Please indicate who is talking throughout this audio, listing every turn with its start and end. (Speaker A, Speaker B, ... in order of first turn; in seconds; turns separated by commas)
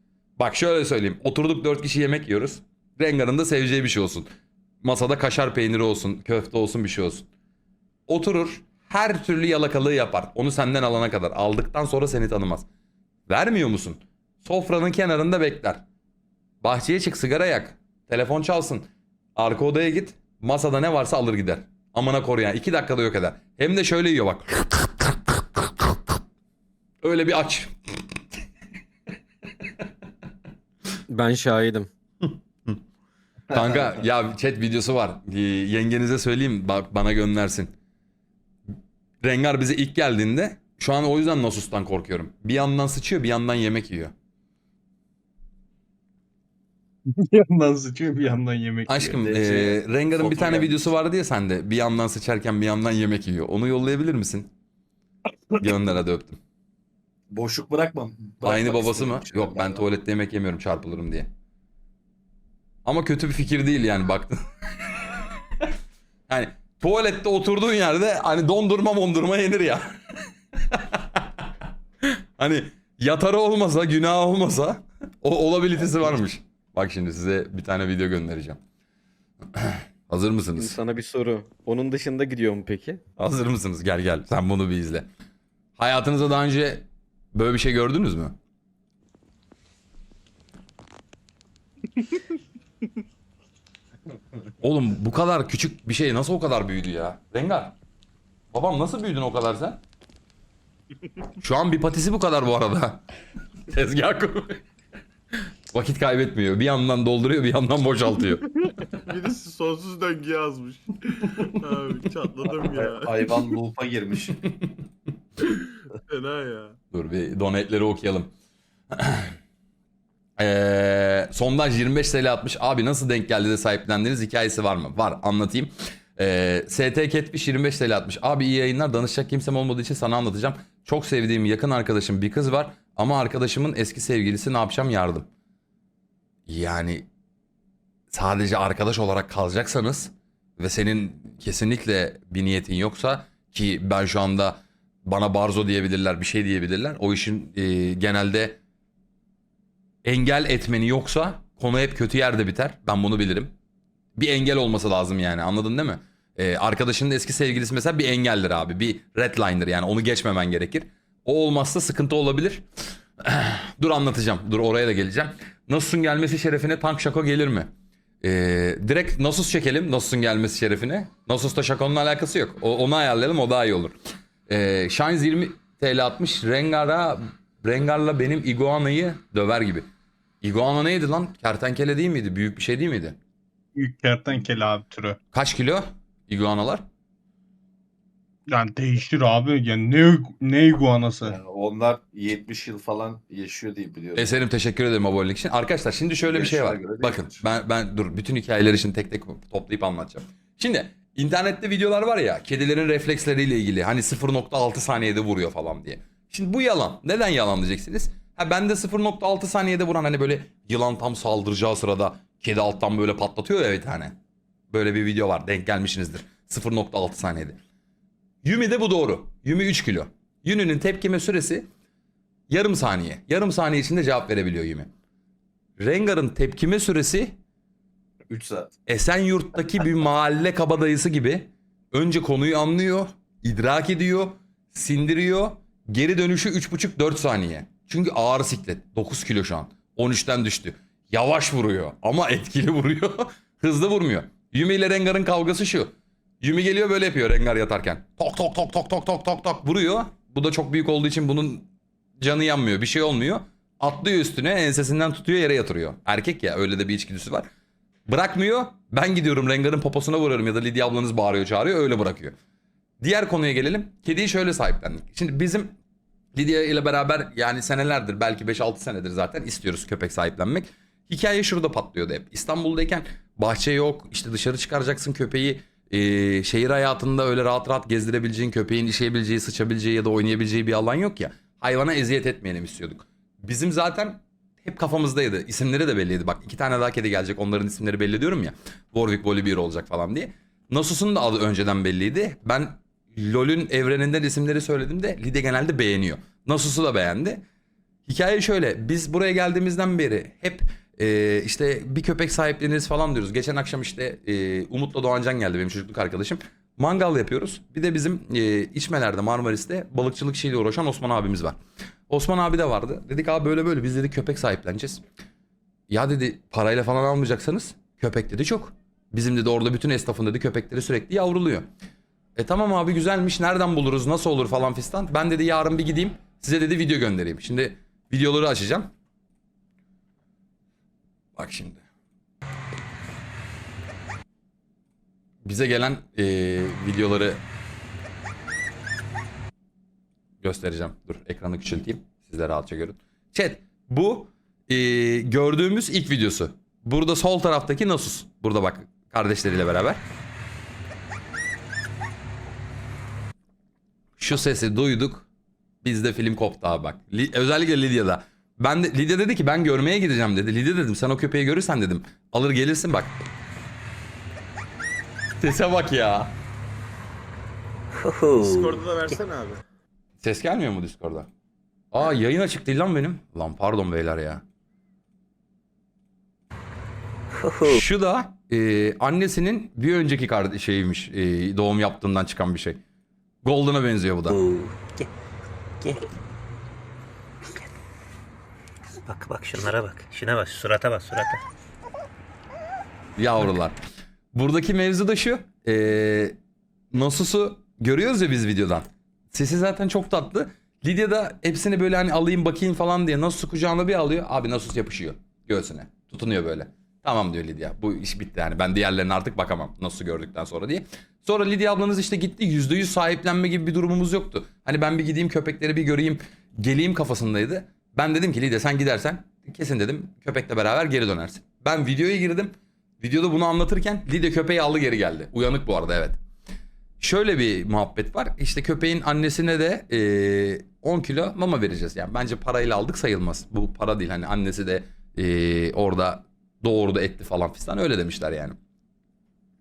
Speaker A: 0.4-4.3, Speaker A: 4.8-7.3, Speaker A: 8.1-12.7, Speaker A: 13.3-15.8, Speaker A: 16.6-25.9, Speaker A: 27.0-27.7, Speaker B: 31.1-31.9, Speaker A: 32.2-32.8, Speaker A: 33.5-37.7, Speaker A: 39.2-44.1, Speaker C: 47.0-49.1, Speaker A: 48.9-54.5, Speaker D: 49.1-50.8, Speaker A: 55.6-56.4, Speaker D: 57.3-59.8, Speaker A: 58.4-61.3, Speaker A: 62.8-65.0, Speaker A: 66.3-70.0, Speaker A: 70.6-71.2, Speaker A: 72.4-78.6, Speaker A: 79.5-80.8, Speaker B: 80.6-83.0, Speaker A: 83.2-85.1, Speaker A: 85.8-88.3, Speaker A: 94.6-97.7, Speaker A: 98.5-99.8, Speaker A: 101.4-103.0, Speaker A: 103.7-104.6, Speaker A: 105.7-108.5, Speaker E: 109.0-113.4, Speaker D: 112.7-114.4, Speaker E: 115.4-116.8, Speaker A: 116.9-118.3, Speaker A: 118.9-119.3, Speaker A: 120.4-135.3, Speaker A: 136.5-137.1, Speaker A: 138.1-148.6, Speaker A: 150.0-153.5, Speaker A: 154.2-162.6, Speaker A: 163.2-167.7, Speaker A: 168.2-173.9, Speaker A: 174.5-179.8, Speaker A: 180.4-183.2, Speaker C: 183.7-185.2, Speaker A: 185.3-186.8, Speaker C: 188.5-191.4, Speaker D: 191.2-194.3, Speaker A: 194.1-214.1, Speaker D: 196.2-197.4, Speaker A: 214.7-217.6, Speaker A: 218.4-221.7, Speaker A: 222.5-224.9, Speaker A: 225.8-227.3, Speaker D: 228.3-228.7, Speaker A: 228.9-251.7, Speaker A: 252.2-257.5, Speaker A: 258.1-262.3, Speaker A: 263.0-265.7, Speaker A: 266.3-297.4, Speaker A: 298.0-311.6, Speaker A: 312.1-315.0, Speaker A: 315.9-321.7, Speaker A: 322.4-328.9, Speaker A: 331.4-331.8, Speaker A: 335.4-337.4, Speaker A: 340.4-350.0, Speaker A: 354.2-355.3, Speaker A: 355.8-363.1, Speaker A: 365.4-366.4, Speaker F: 368.0-368.8, Speaker E: 368.4-369.6, Speaker A: 370.2-371.3, Speaker A: 371.9-374.4, Speaker F: 377.4-377.8, Speaker A: 377.6-382.8, Speaker A: 383.4-384.4, Speaker F: 384.3-385.1, Speaker F: 385.8-386.1, Speaker F: 389.0-391.4, Speaker A: 393.2-393.8, Speaker A: 394.3-396.4, Speaker A: 396.9-426.2, Speaker A: 427.0-438.6